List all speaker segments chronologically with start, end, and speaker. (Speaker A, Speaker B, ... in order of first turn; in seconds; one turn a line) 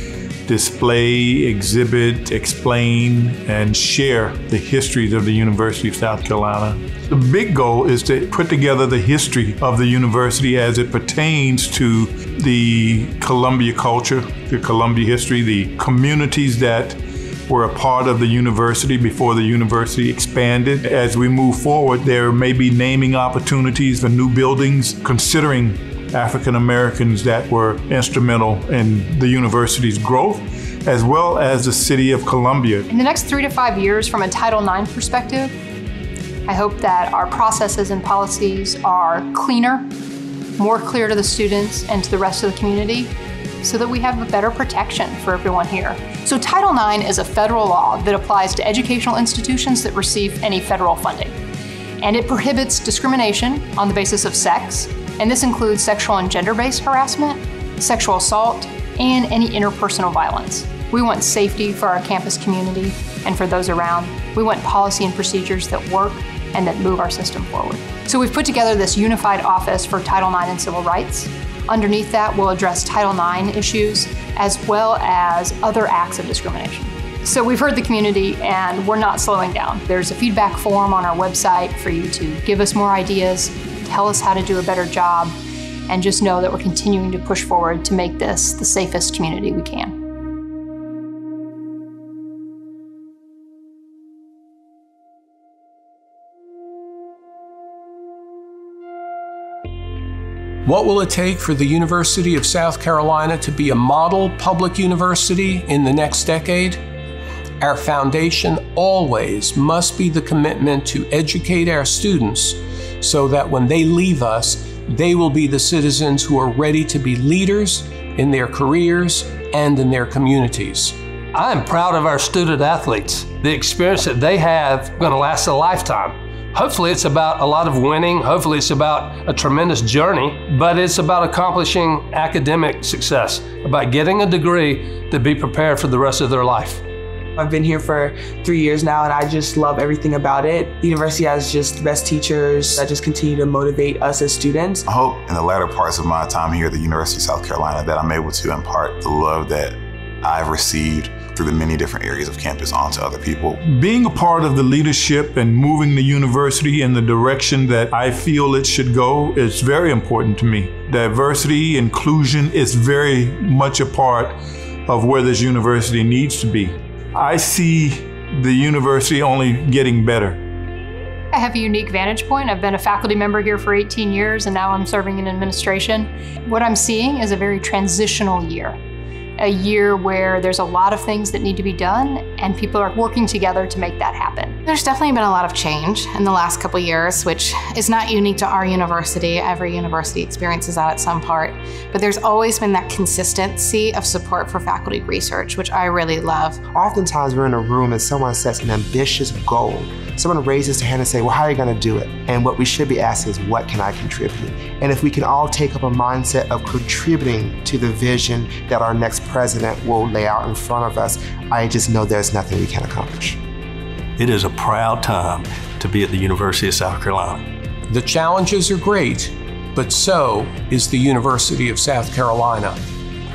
Speaker A: 0.5-32.9
Speaker B: 32.9-35.5
Speaker B: 36.5-39.9
Speaker B: 40.6-43.1
Speaker B: 43.6-51.3
Speaker B: 52.0-85.4
Speaker B: 85.9-89.9
Speaker C: 100.6-106.8
Speaker C: 107.6-121.0
Speaker D: 121.3-136.8
Speaker E: 137.3-144.8
Speaker F: 144.9-153.6
Speaker A: 153.6-170.4
Speaker B: 171.3-178.8
Speaker B: 179.4-184.5
Speaker G: 184.7-196.6
Speaker H: 196.7-213.4
Speaker I: 214.2-217.5
Speaker C: 217.9-222.9